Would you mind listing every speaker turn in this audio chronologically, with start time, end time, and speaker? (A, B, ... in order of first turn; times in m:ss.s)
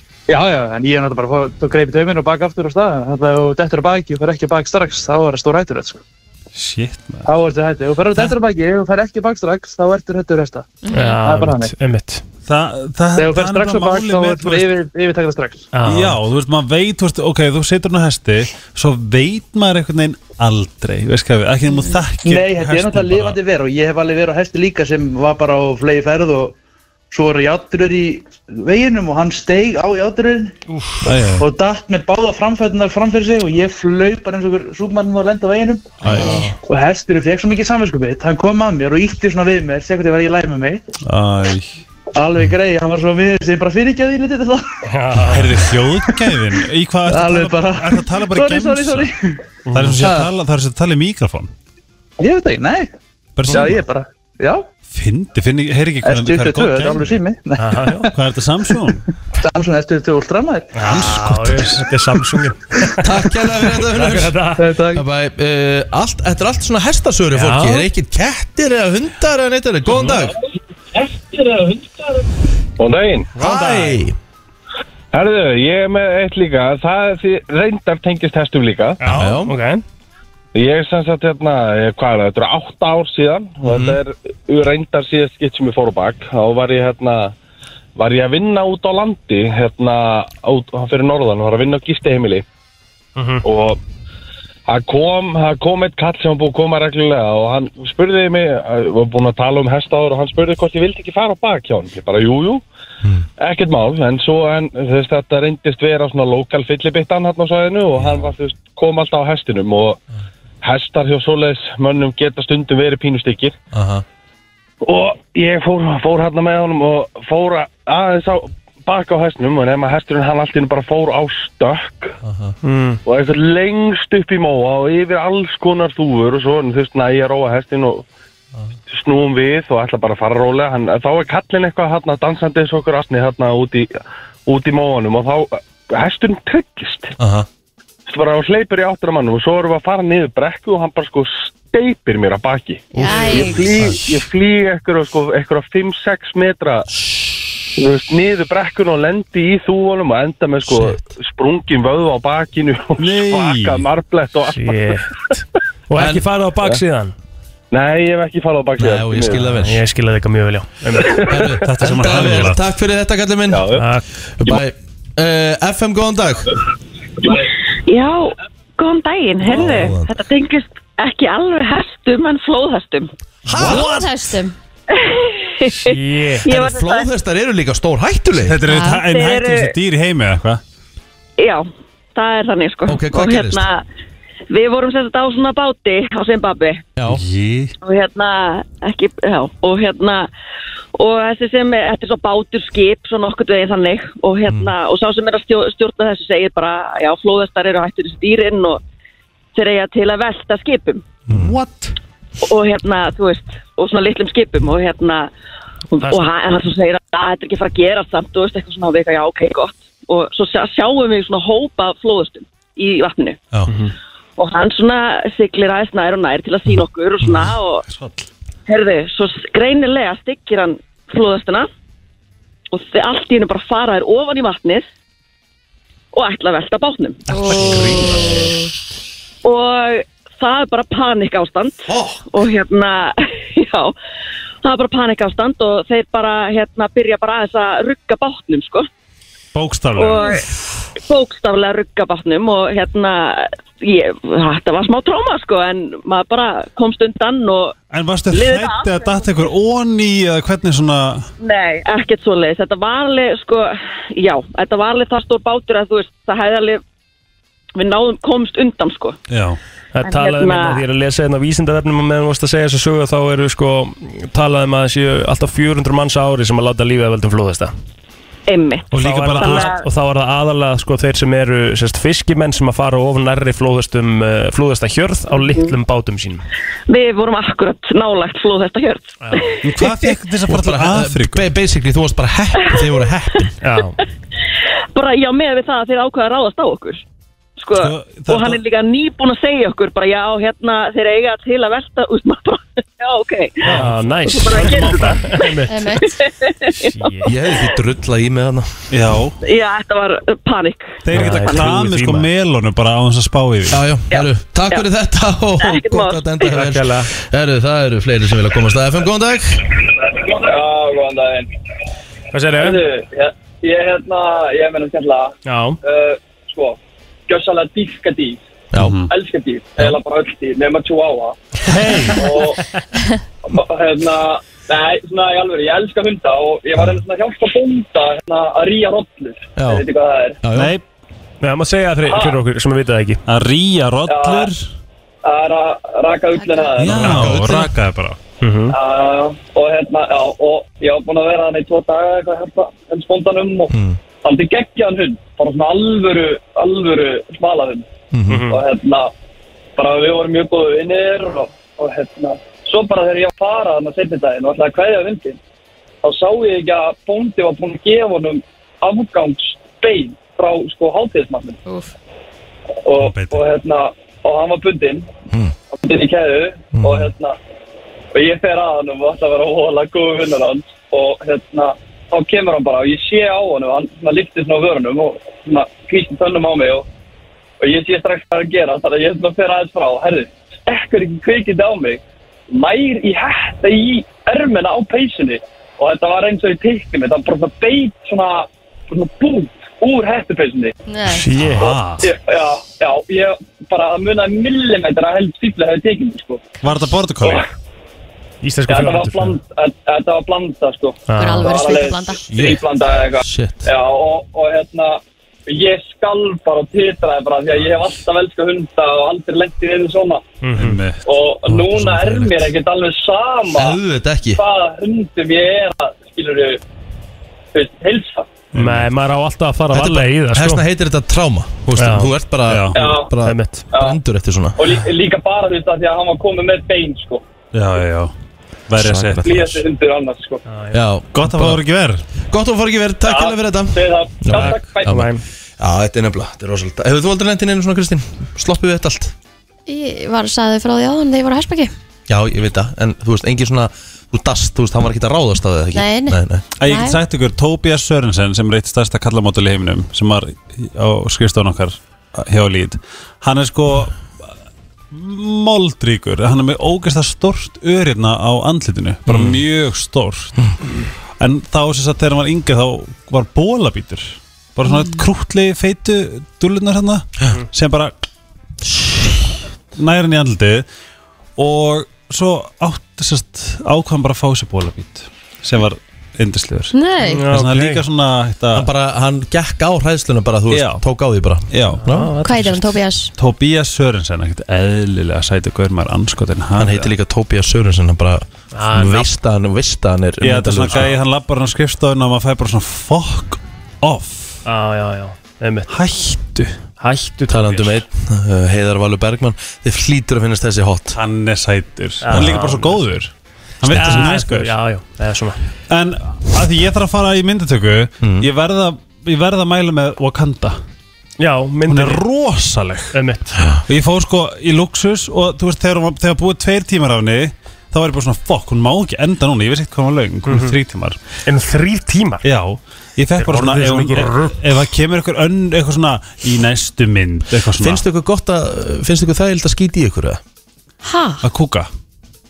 0:00.3-0:06.0 A
0:06.6-0:07.3 B
0:07.2-0:11.7 A
0:10.9-0:11.2 C
0:10.9-0:12.2 D
0:12.5-0:14.7 B
0:13.2-0:15.7 A
0:15.7-0:16.2 D
0:15.8-0:23.4 B
0:21.7-0:22.0 C
0:22.2-0:26.6 A
0:27.1-0:30.6 A
0:30.7-0:31.0 D
0:31.0-0:31.5 B
0:31.4-0:40.8 A
0:36.0-0:36.6 D
0:36.1-0:36.4 B
0:41.0-0:41.8 B
0:42.2-0:44.8 A
0:44.9-0:45.7 D
0:45.2-0:49.1 B
0:47.1-0:49.4 A
0:49.7-0:50.0 D
0:49.7-0:51.5 B
0:50.0-0:50.3 A
0:52.2-0:52.9 A
0:53.4-0:53.8 B
0:53.5-0:54.7 A
0:54.9-0:57.2 B
0:56.0-0:58.0 A
0:57.6-0:58.1 D
0:58.1-0:59.1 B
0:59.4-1:00.9 A
1:00.8-1:03.1 D
1:00.8-1:02.2 B
1:03.0-1:04.4 E
1:03.6-1:04.6 D
1:04.6-1:05.0 A
1:04.9-1:10.3 E
1:07.3-1:07.9 D
1:11.0-1:12.3 F
1:12.8-1:13.3 F
1:13.4-1:14.2 E
1:13.4-1:14.0 D
1:15.1-1:19.0 F
1:19.0-1:19.8 D
1:19.1-1:19.5 E
1:20.5-1:27.4 F
1:23.6-1:24.0 E
1:28.0-1:32.4 F
1:33.2-1:33.4 D
1:33.4-1:33.8 F
1:34.7-1:42.6 F
1:43.4-1:50.0 F
1:50.6-1:53.6 F
1:53.7-1:54.0 E
1:54.8-2:02.2 F
2:02.2-2:02.6 E
2:02.6-2:03.0 D
2:03.1-2:08.1 F
2:08.9-2:17.2 F
2:17.2-2:17.5 E
2:18.1-2:27.1 F
2:22.9-2:23.8 C
2:27.6-2:35.0 F
2:30.7-2:31.2 E
2:33.0-2:33.8 B
2:34.5-2:37.1 D
2:36.0-2:36.2 E
2:37.7-2:39.5 F
2:38.8-2:39.8 E
2:39.4-2:41.5 D
2:41.2-2:41.5 F
2:41.3-2:43.7 E
2:41.6-2:42.6 B
2:43.5-2:43.9 F
2:43.7-2:44.1 D
2:44.4-2:46.5 E
2:47.9-2:53.1 G
2:49.4-2:50.1 E
2:53.5-2:54.1 E
2:53.6-2:54.6 C
2:53.6-2:54.0 B
2:54.9-2:57.1 G
2:55.7-2:56.5 D
2:56.4-2:58.6 E
2:58.4-3:00.6 B
2:58.7-2:59.0 C
2:59.0-2:59.7 G
3:01.4-3:03.8 G
3:02.9-3:03.7 E
3:04.5-3:06.9 G
3:07.0-3:07.2 E
3:07.1-3:07.7 B
3:07.8-3:10.3 G
3:11.0-3:18.8 G
3:19.5-3:21.1 G
3:21.3-3:21.5 E
3:21.3-3:22.0 B
3:22.4-3:25.3 G
3:25.9-3:33.4 G
3:33.7-3:33.9 D
3:34.4-3:37.9 G
3:37.2-3:37.6 E
3:37.9-3:38.2 B
3:38.7-3:41.7 G
3:42.7-3:44.9 G
3:46.1-3:47.2 G
3:47.3-3:48.5 B
3:47.3-3:48.5 C
3:49.4-3:54.0 G
3:51.9-3:52.2 E
3:54.6-3:58.9 G
3:59.5-4:00.4 B
4:00.0-4:00.5 G
4:01.0-4:07.8 G
4:07.9-4:11.3 B
4:08.3-4:09.4 G
4:11.4-4:16.8 G
4:17.8-4:19.2 G
4:19.3-4:19.6 B
4:19.9-4:27.7 D
4:20.0-4:20.8 G
4:28.5-4:29.8 G
4:28.9-4:29.7 B
4:28.9-4:36.4 D
4:36.9-4:40.1 G
4:39.2-4:39.5 D
4:39.6-4:41.5 B
4:40.5-4:43.5 E
4:43.6-4:44.0 D
4:44.9-4:47.0 G
4:47.6-4:57.8 G
4:47.8-4:48.6 B
4:53.6-4:55.8 D
4:54.5-4:55.2 B
4:55.7-4:56.1 C
4:56.7-4:57.3 D
4:57.2-4:58.7 E
4:58.9-4:59.4 B
4:59.4-5:01.8 G
5:01.0-5:03.8 B
5:01.1-5:02.3 D
5:03.7-5:09.7 E
5:04.1-5:04.9 G
5:05.6-5:06.5 G
5:06.4-5:07.1 D
5:10.1-5:11.5 H
5:12.3-5:12.8 D
5:12.6-5:18.4 H
5:15.4-5:15.8 D
5:18.7-5:19.0 E
5:18.8-5:19.1 B
5:19.1-5:21.4 H
5:21.6-5:22.3 B
5:22.0-5:22.6 H
5:23.4-5:30.4 H
5:29.6-5:29.8 E
5:30.4-5:30.7 E
5:30.5-5:30.8 B
5:31.4-5:33.2 D
5:32.1-5:32.4 H
5:33.3-5:34.7 B
5:34.1-5:34.5 H
5:35.2-5:37.2 H
5:36.4-5:36.7 C
5:36.8-5:38.2 B
5:36.9-5:37.7 E
5:38.4-5:38.8 D
5:38.7-5:47.9 H
5:43.7-5:44.0 E
5:48.1-5:48.4 E
5:48.3-5:48.6 D
5:48.5-5:49.1 H
5:49.8-5:55.4 H
5:56.0-6:01.6 H
6:01.7-6:01.9 C
6:02.8-6:05.1 H
6:03.0-6:03.4 B
6:05.7-6:07.4 H
6:06.8-6:07.1 E
6:08.1-6:16.9 H
6:17.6-6:30.7 H
6:30.9-6:31.3 C
6:31.1-6:31.7 D
6:31.4-6:32.1 B
6:31.6-6:36.5 H
6:36.6-6:37.4 B
6:37.2-6:37.5 H
6:38.4-6:39.4 D
6:38.7-6:50.2 H
6:41.1-6:41.6 D
6:41.2-6:42.2 C
6:42.3-6:42.6 E
6:43.2-6:43.7 E
6:50.4-6:50.8 D
6:50.6-6:51.0 B
6:51.0-6:53.8 H
6:51.5-6:52.5 E
6:53.5-6:54.4 E
6:54.3-6:56.6 H
6:57.5-6:58.4 H
6:58.5-6:58.9 B
6:58.5-7:00.6 D
6:59.7-7:04.7 E
7:01.8-7:02.1 D
7:02.5-7:02.8 B
7:02.7-7:03.2 H
7:03.2-7:03.7 D
7:03.7-7:04.0 H
7:04.6-7:07.2 H
7:07.5-7:08.1 B
7:08.7-7:09.4 B
7:08.8-7:09.6 E
7:09.2-7:10.4 H
7:10.5-7:10.8 D
7:10.7-7:11.6 E
7:11.1-7:12.0 B
7:12.3-7:19.2 E
7:13.0-7:14.9 H
7:14.3-7:15.2 D
7:19.7-7:21.7 C
7:22.1-7:26.4 E
7:25.7-7:27.0 C
7:26.6-7:34.0 B
7:34.9-7:40.4 B
7:39.1-7:39.4 E
7:41.2-7:47.9 B
7:44.7-7:45.0 C
7:48.6-7:49.3 E
7:49.7-7:50.7 B
7:51.4-7:56.8 B
7:56.7-7:57.3 C
7:57.0-7:57.8 D
7:57.3-7:58.7 B
7:58.5-8:02.1 E
8:00.5-8:00.8 B
8:01.5-8:01.8 B
8:01.8-8:02.7 D
8:02.2-8:03.1 C
8:03.2-8:06.9 B
8:06.6-8:11.0 E
8:08.5-8:09.1 D
8:10.2-8:14.4 B
8:14.4-8:15.7 D
8:15.7-8:16.6 B
8:16.8-8:17.8 D
8:17.3-8:21.0 E
8:20.9-8:24.6 B
8:22.0-8:22.8 D
8:23.6-8:24.0 E
8:23.7-8:25.4 D
8:25.7-8:30.6 B
8:28.0-8:28.3 E
8:31.2-8:32.0 D
8:31.7-8:33.0 B
8:32.9-8:33.4 D
8:33.4-8:33.6 E
8:33.7-8:41.0 B
8:40.3-8:40.6 D
8:41.3-8:42.2 D
8:42.2-8:47.8 B
8:43.2-8:44.4 D
8:47.6-8:50.2 E
8:50.8-8:51.2 C
8:51.2-8:51.7 B